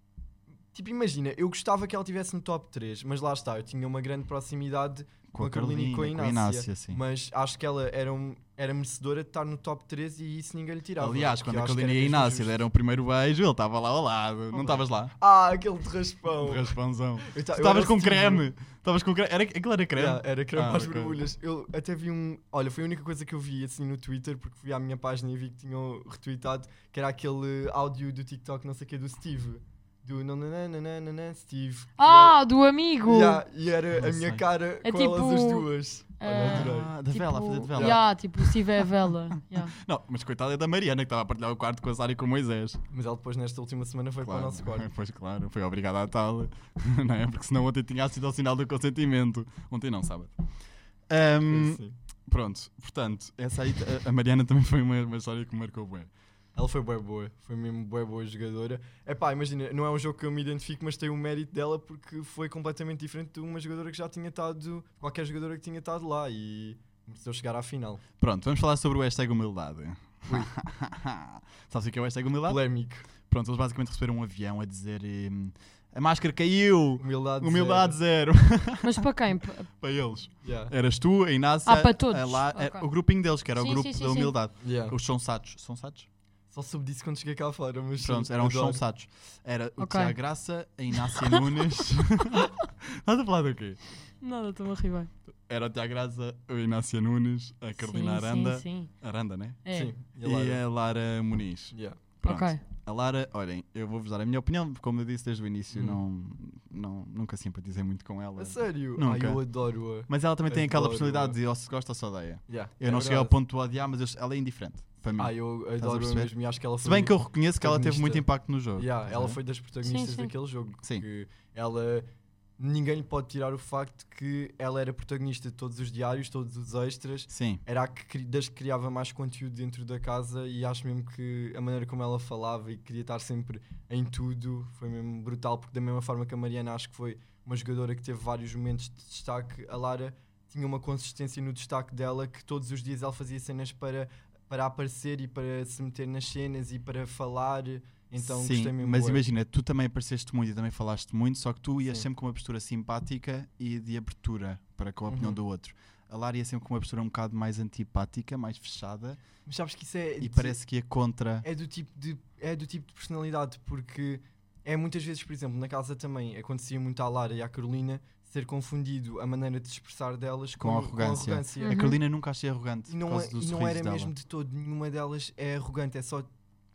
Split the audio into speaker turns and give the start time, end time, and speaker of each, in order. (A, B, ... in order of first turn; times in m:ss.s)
0:00.7-0:12.6 A
0:05.3-0:07.0 B
0:11.0-0:15.1 B
0:14.5-0:18.4 A
0:16.4-0:21.2 B
0:19.9-0:32.4 A
0:32.0-0:33.4 C
0:33.0-0:36.9 A
0:33.9-0:34.4 B
0:34.8-0:35.7 C
0:36.2-0:39.8 C
0:36.4-0:38.6 B
0:37.7-0:38.0 A
0:39.5-0:42.8 B
0:42.9-0:44.9 A
0:44.2-0:50.3 B
0:51.1-0:56.1 B
0:51.5-0:52.0 A
0:56.5-1:08.0 A
1:08.2-1:12.6 B
1:12.4-1:13.1 A
1:13.2-1:19.1 B
1:17.0-1:18.0 A
1:18.8-1:19.7 C
1:19.7-1:26.1 B
1:20.4-1:20.7 A
1:21.6-1:24.4 C
1:24.6-1:25.0 A
1:26.5-1:28.8 A
1:28.0-1:33.8 B
1:29.8-1:30.2 C
1:30.9-1:31.4 C
1:34.2-1:35.1 C
1:35.5-1:39.6 B
1:37.8-1:38.9 C
1:39.6-1:39.9 C
1:39.7-1:40.6 A
1:40.2-1:59.4 B
1:41.7-1:42.0 A
1:42.2-1:42.6 C
1:45.7-1:46.0 A
1:48.4-1:51.4 A
1:52.5-1:53.3 A
1:55.2-2:02.1 A
1:59.8-2:00.3 C
2:02.6-2:29.2 A
2:07.3-2:07.6 B
2:28.2-2:39.2 B
2:35.1-2:35.4 A
2:39.4-2:40.6 A
2:40.2-2:41.4 B
2:41.4-2:51.9 A
2:50.6-2:54.1 B
2:51.6-2:52.0 C
2:52.9-2:56.3 A